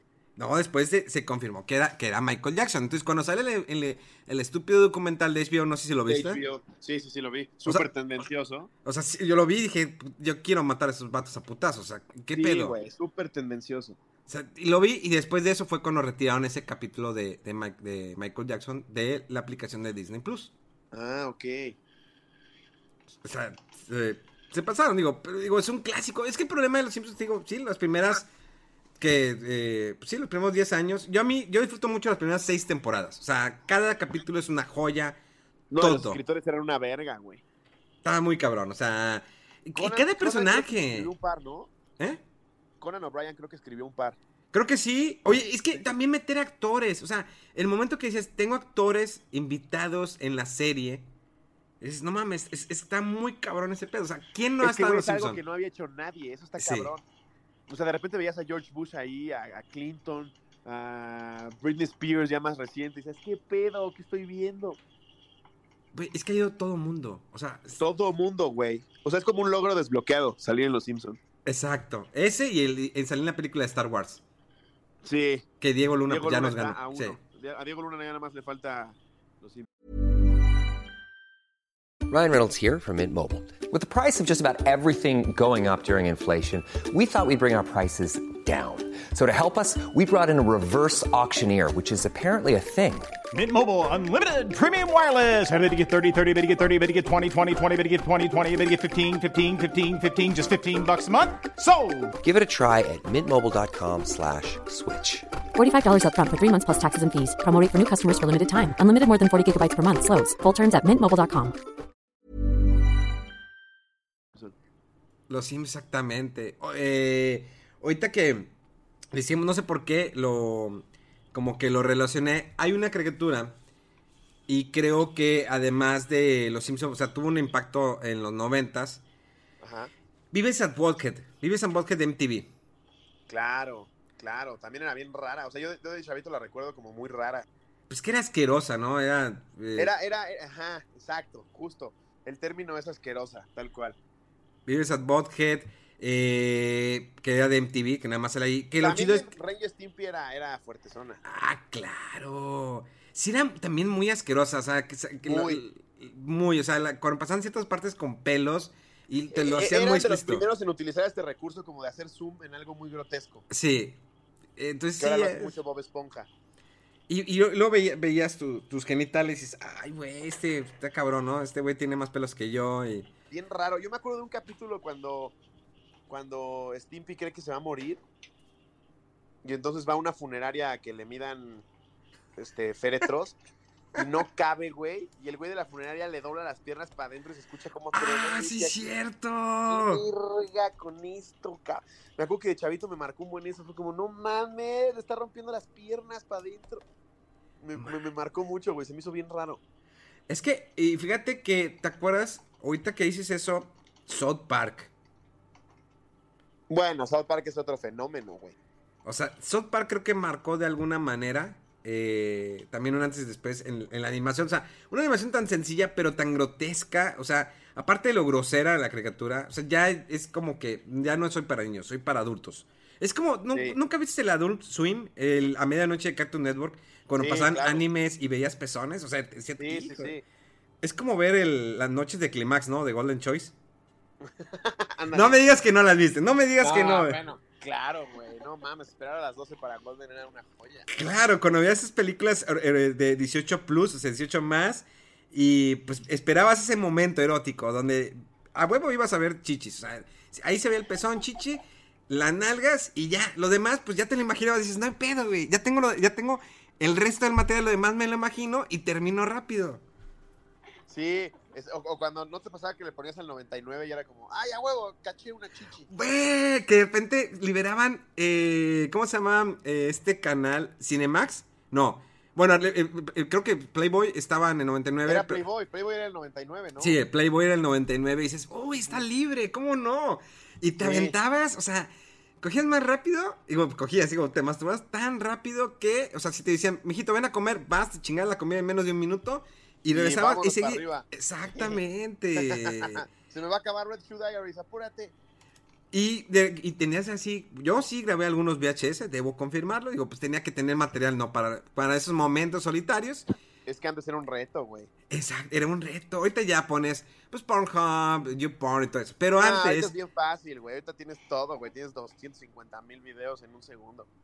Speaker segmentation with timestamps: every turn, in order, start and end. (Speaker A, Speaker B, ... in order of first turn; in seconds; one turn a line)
Speaker A: 0.3-6.4
Speaker B: 6.1-8.7
Speaker A: 8.8-12.8
Speaker B: 12.3-14.0
Speaker A: 14.3-20.5
Speaker B: 20.9-21.8
Speaker A: 23.2-28.3
Speaker A: 29.0-35.2
Speaker B: 35.7-37.4
Speaker A: 35.8-36.2
Speaker A: 38.0-41.1
Speaker B: 39.8-41.7
Speaker B: 42.8-44.2
Speaker A: 44.5-51.1
Speaker A: 51.8-55.4
Speaker B: 54.6-57.0
Speaker A: 56.6-56.9
Speaker B: 57.7-64.8
Speaker A: 65.9-67.8
Speaker B: 67.7-71.2
Speaker A: 71.5-74.2
Speaker B: 75.0-75.4
Speaker A: 75.6-77.2
Speaker B: 76.0-79.7
Speaker C: 82.1-93.2
Speaker D: 93.3-102.2
Speaker C: 102.2-105.3
Speaker E: 105.5-111.6
Speaker A: 115.3-118.5
Speaker A: 119.1-123.5
Speaker A: 124.5-129.0
Speaker B: 129.6-129.9
Speaker A: 130.3-132.5
Speaker B: 133.3-137.4
Speaker A: 137.9-139.9
Speaker B: 139.8-143.9
Speaker A: 144.7-149.3
Speaker B: 148.8-151.2
Speaker A: 151.2-160.4
Speaker B: 155.2-155.6
Speaker B: 159.3-163.4
Speaker A: 163.5-164.0
Speaker A: 164.6-165.5
Speaker B: 165.0-166.3
Speaker A: 167.1-173.1
Speaker B: 173.3-175.3
Speaker B: 176.1-178.0
Speaker B: 179.4-181.6
Speaker B: 182.4-183.4
Speaker B: 183.9-188.8
Speaker A: 187.9-190.0
Speaker B: 189.7-196.8
Speaker B: 197.6-199.6
Speaker A: 200.3-204.9
Speaker B: 206.7-208.6
Speaker A: 209.0-230.2
Speaker B: 223.5-223.8
Speaker B: 227.2-227.8
Speaker B: 229.6-230.2
Speaker A: 230.8-233.5
Speaker B: 234.2-235.4
Speaker A: 235.1-237.2
Speaker B: 236.6-240.9
Speaker A: 240.9-259.8
Speaker B: 260.9-265.9
Speaker A: 265.9-275.4
Speaker B: 275.0-277.0
Speaker A: 276.8-293.0
Speaker B: 280.8-281.1
Speaker B: 289.9-291.1
Speaker B: 292.4-295.1
Speaker A: 295.9-303.2
Speaker B: 303.6-304.9
Speaker A: 305.1-309.9
Speaker B: 309.4-314.1